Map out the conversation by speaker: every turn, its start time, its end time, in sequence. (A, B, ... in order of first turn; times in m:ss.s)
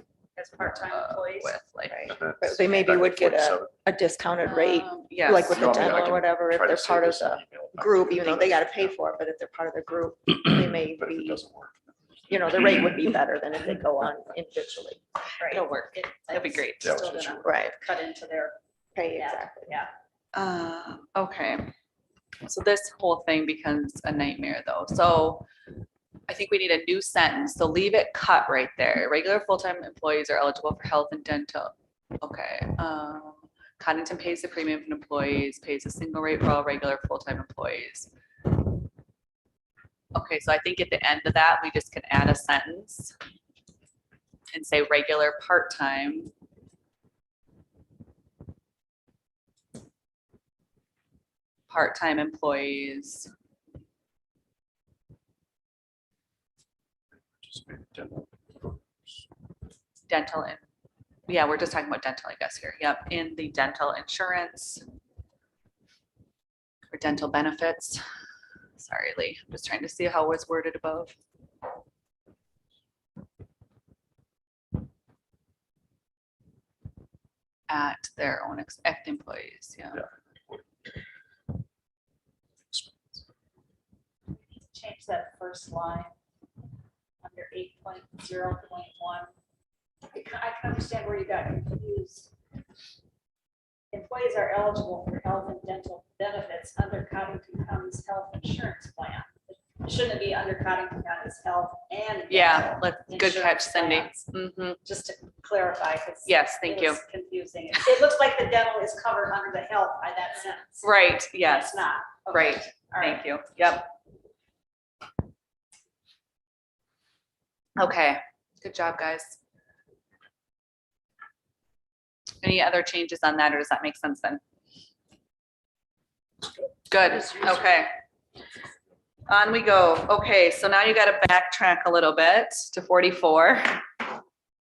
0:00.4-0:01.6 A
0:00.8-0:02.1 B
0:01.9-0:11.4 C
0:02.1-0:03.7 D
0:04.4-0:05.9 B
0:05.4-0:08.9 D
0:10.9-0:12.4 D
0:12.3-0:15.0 C
0:15.4-0:18.6 A
0:15.5-0:17.0 B
0:16.8-0:17.5 D
0:17.4-0:17.8 C
0:19.0-0:19.7 C
0:19.2-0:19.9 A
0:20.3-0:21.7 B
0:22.4-0:25.4 B
0:26.3-0:38.1 B
0:40.1-0:43.2 B
0:44.5-0:46.3 B
0:51.7-0:53.3 B
0:57.2-0:59.2 D
1:00.1-1:00.6 B
1:01.3-1:04.8 B
1:06.9-1:08.0 B
1:08.8-1:11.2 B
1:17.7-1:20.0 B
1:22.7-1:23.2 D
1:24.3-1:26.1 A
1:27.2-1:29.3 A
1:30.1-1:32.3 A
1:33.9-1:44.3 A
1:42.3-1:44.8 B
1:44.8-1:53.2 A
1:46.3-1:47.0 B
1:50.8-1:53.9 B
1:57.8-1:59.4 B
2:02.4-2:04.4 B
2:06.9-2:07.9 B
2:09.3-2:13.9 B